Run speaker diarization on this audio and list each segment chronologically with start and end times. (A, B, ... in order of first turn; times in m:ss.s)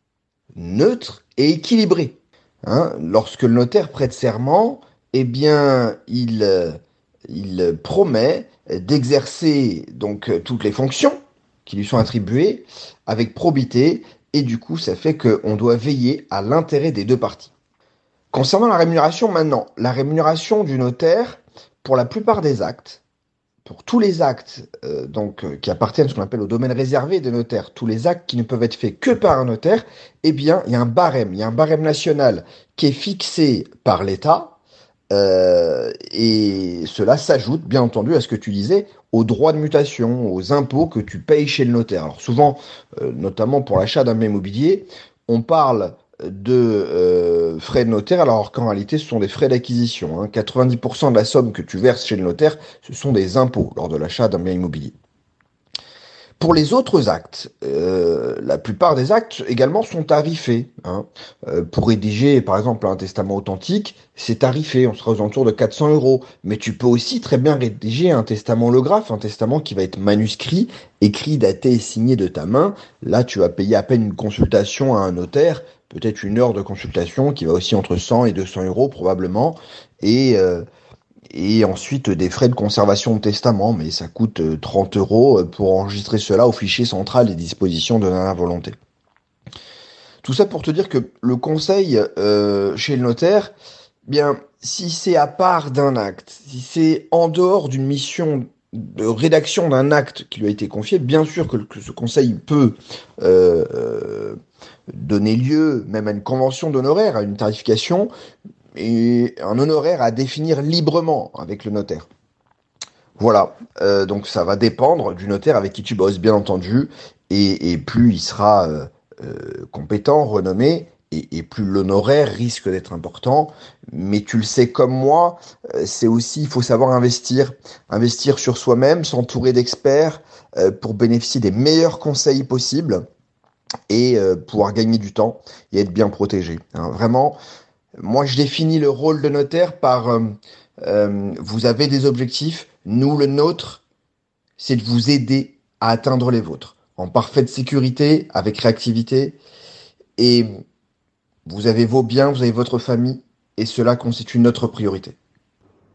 0:00.6-0:06.8 A
0:07.3-0:17.5 A
0:18.3-0:23.0 A
0:23.6-0:34.5 A
0:35.1-0:54.9 A
0:56.4-1:20.6 A
1:21.3-1:28.8 A
1:30.2-1:33.5 A
1:34.1-1:44.4 A
1:44.9-1:48.1 A
1:48.8-1:52.1 A
1:53.2-2:13.0 A
2:13.9-2:17.4 A
2:18.0-2:23.8 A
2:24.6-2:29.4 A
2:30.2-2:30.5 A
2:31.5-2:35.2 A